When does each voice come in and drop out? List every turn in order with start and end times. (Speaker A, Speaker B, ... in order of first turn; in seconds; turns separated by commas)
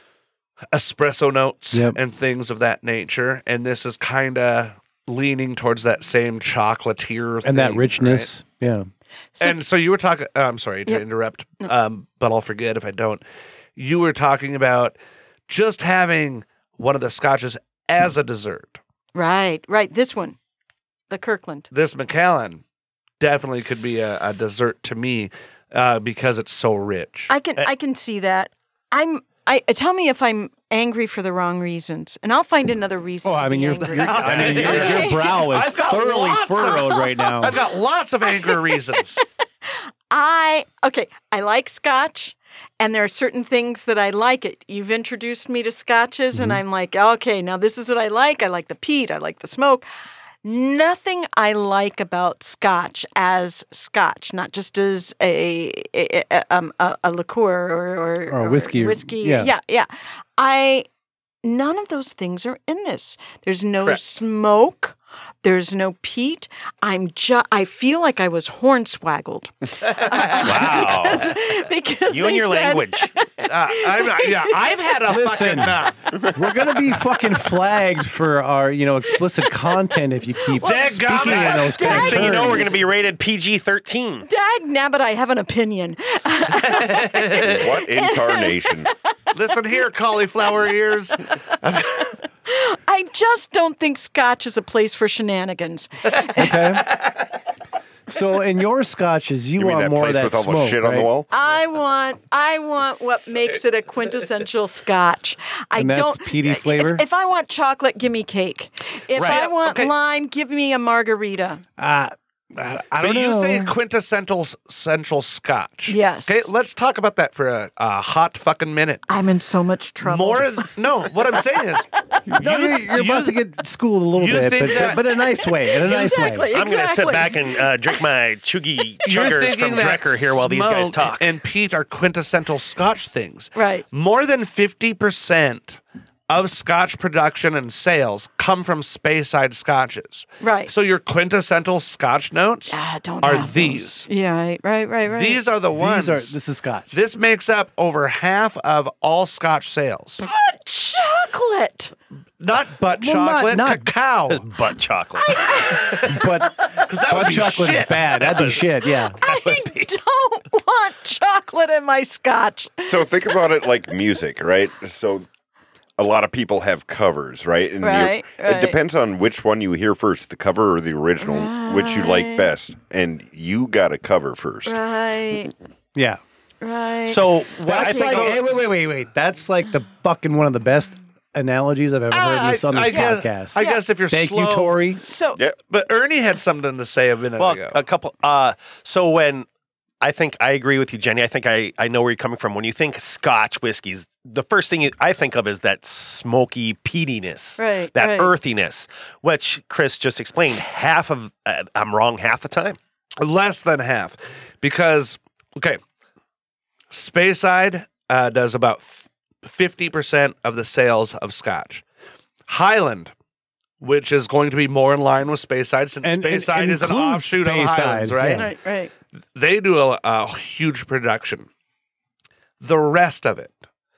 Speaker A: 0.7-8.3, Speaker B: 7.4-8.9, Speaker A: 9.4-13.2, Speaker A: 13.8-15.0, Speaker A: 15.5-18.8, Speaker C: 19.1-20.4, Speaker C: 21.1-21.7, Speaker A: 21.7-22.6, Speaker A: 23.2-27.3, Speaker C: 27.3-35.4, Speaker B: 33.2-37.6, Speaker A: 33.9-39.2, Speaker D: 34.2-35.1, Speaker C: 37.0-37.3, Speaker C: 39.7-49.9, Speaker B: 46.3-46.6, Speaker C: 50.4-60.9, Speaker B: 58.3-59.5, Speaker C: 61.4-74.5, Speaker A: 70.1-70.4, Speaker D: 70.3-71.4, Speaker D: 72.1-73.1, Speaker A: 73.5-76.1, Speaker B: 75.1-82.8, Speaker C: 80.5-82.7, Speaker A: 80.6-82.4, Speaker D: 81.7-84.3, Speaker C: 84.3-88.9, Speaker A: 86.7-87.6, Speaker E: 87.4-88.9, Speaker A: 89.3-92.1, Speaker C: 92.5-96.8, Speaker B: 96.4-96.9, Speaker B: 98.1-101.1, Speaker E: 99.6-101.3, Speaker C: 101.3-111.6, Speaker B: 105.8-107.0, Speaker A: 109.1-109.9, Speaker D: 109.2-109.4, Speaker B: 111.8-113.8, Speaker A: 113.0-119.1, Speaker C: 115.9-116.5, Speaker C: 119.1-120.7, Speaker A: 120.0-123.3, Speaker B: 122.3-126.5, Speaker A: 124.2-125.0, Speaker C: 125.4-128.0, Speaker D: 126.5-131.3, Speaker A: 129.0-144.1, Speaker C: 133.6-133.8, Speaker C: 140.4-140.7, Speaker C: 142.7-145.4, Speaker A: 145.1-146.3, Speaker B: 145.8-146.9, Speaker A: 146.9-150.2, Speaker C: 150.2-151.9, Speaker A: 152.4-154.4, Speaker B: 152.8-153.9, Speaker D: 154.3-155.5, Speaker C: 155.2-156.3, Speaker A: 155.6-158.6, Speaker B: 156.1-159.2, Speaker D: 158.0-158.7, Speaker C: 159.2-163.3, Speaker D: 159.2-159.9, Speaker E: 162.8-165.2, Speaker E: 166.0-174.8, Speaker C: 167.8-168.8, Speaker C: 171.2-172.5, Speaker C: 174.7-175.5, Speaker B: 175.9-176.2, Speaker C: 176.6-178.3, Speaker D: 177.1-178.6, Speaker B: 177.7-185.0, Speaker A: 182.1-184.8, Speaker C: 182.9-183.8, Speaker C: 185.0-185.4, Speaker A: 185.6-187.8, Speaker D: 187.4-189.5, Speaker D: 190.0-202.8, Speaker C: 197.6-198.3, Speaker A: 203.2-205.8, Speaker A: 206.9-211.8, Speaker A: 212.5-213.1, Speaker A: 213.8-218.5, Speaker B: 216.0-218.5, Speaker C: 218.3-218.9, Speaker A: 219.3-221.5, Speaker A: 222.6-223.6